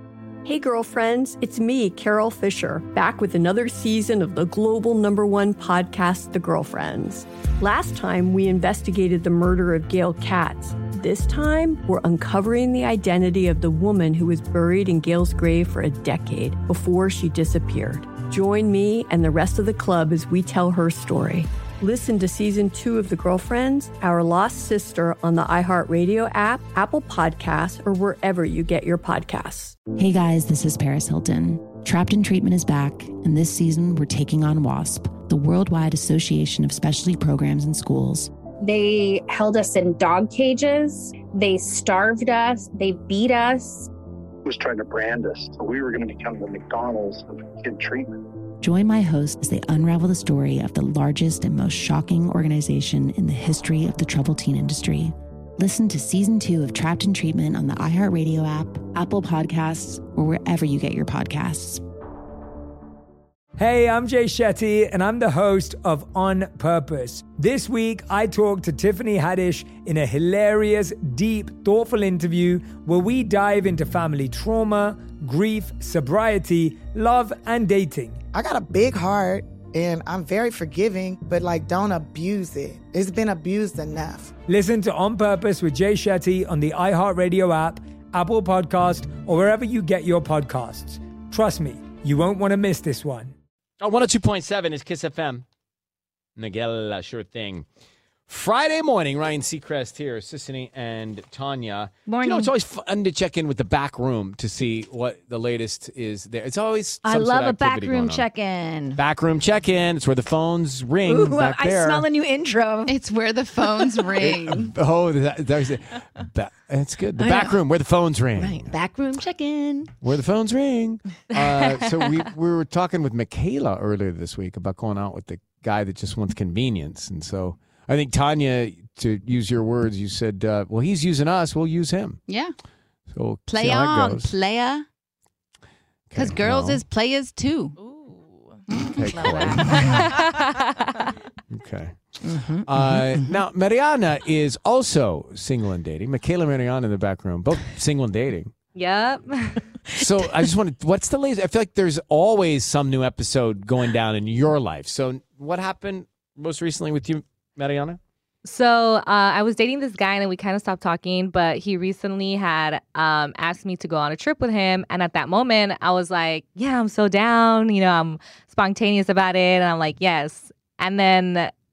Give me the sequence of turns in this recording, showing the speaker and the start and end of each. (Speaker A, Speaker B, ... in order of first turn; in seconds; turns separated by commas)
Speaker A: 0.5-29.8, Speaker B: 30.0-38.3, Speaker C: 38.6-43.9, Speaker D: 44.5-48.2, Speaker B: 48.6-61.8, Speaker E: 63.6-78.2, Speaker F: 78.3-84.3, Speaker E: 84.5-93.3, Speaker G: 93.8-95.4, Speaker G: 96.4-97.7, Speaker G: 98.3-108.2, Speaker H: 102.1-102.5, Speaker H: 107.0-109.0, Speaker G: 109.0-112.1, Speaker H: 111.0-112.9, Speaker I: 112.9-114.7, Speaker G: 114.2-118.7, Speaker H: 117.2-117.6, Speaker H: 118.4-119.9, Speaker G: 120.0-132.2, Speaker I: 132.3-132.5, Speaker G: 133.1-134.3, Speaker I: 133.5-134.8, Speaker G: 136.1-136.8, Speaker I: 136.2-137.8, Speaker I: 138.7-139.1, Speaker G: 138.9-140.1, Speaker J: 139.6-141.1, Speaker G: 141.5-148.5, Speaker H: 142.2-143.1, Speaker J: 148.7-149.6, Speaker G: 149.9-158.0, Speaker J: 158.4-171.5